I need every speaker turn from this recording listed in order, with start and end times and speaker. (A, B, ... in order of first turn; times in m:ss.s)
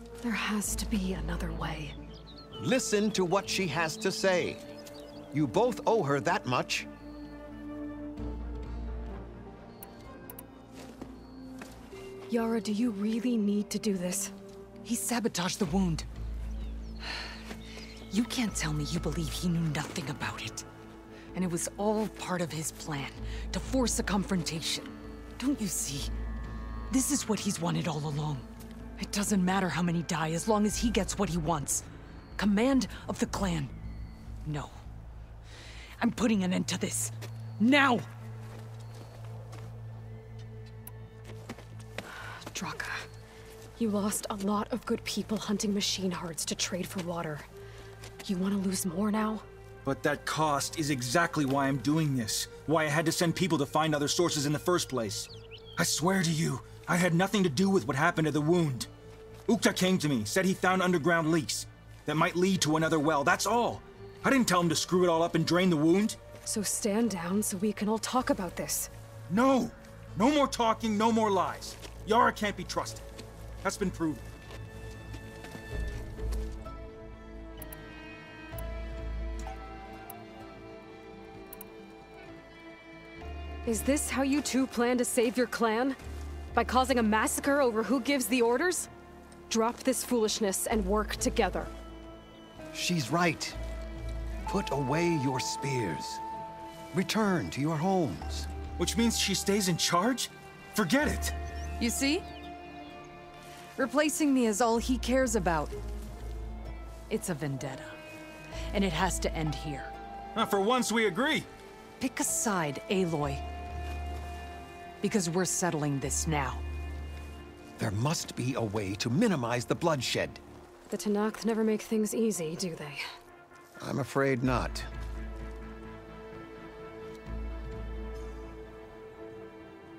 0:00.2-0:01.9 A
0:02.6-0:04.6 B
0:05.3-0:06.9 B
0:12.3-0:14.3 A
0:14.8-0:16.1 C
0:18.1-0:20.6 C
0:21.3-0:26.1 C
0:26.9-0:28.5 C
0:29.0-0:31.8 C
0:32.4-0:33.7 C
0:34.4-0:34.8 C
0:36.0-0:38.1 C
0:42.5-0:43.0 A
0:43.8-0:47.5 A
0:48.2-0:49.4 A
0:49.8-0:58.9 D
0:59.5-1:06.2 D
1:06.4-1:08.9 A
1:09.3-1:13.0 D
1:13.6-1:14.2 D
1:23.6-1:26.0 A
1:26.5-1:28.9 A
1:29.5-1:31.7 A
1:32.7-1:33.6 B
1:34.4-1:36.2 B
1:36.9-1:38.5 B
1:38.8-1:41.3 D
1:41.8-1:42.2 C
1:43.8-1:45.8 C
1:47.1-1:48.0 C
1:48.7-1:49.9 C
1:50.3-1:51.5 D
1:52.0-1:53.4 C
1:55.0-1:56.6 C
1:57.8-2:00.4 B
2:00.9-2:03.0 A
2:03.8-2:04.9 B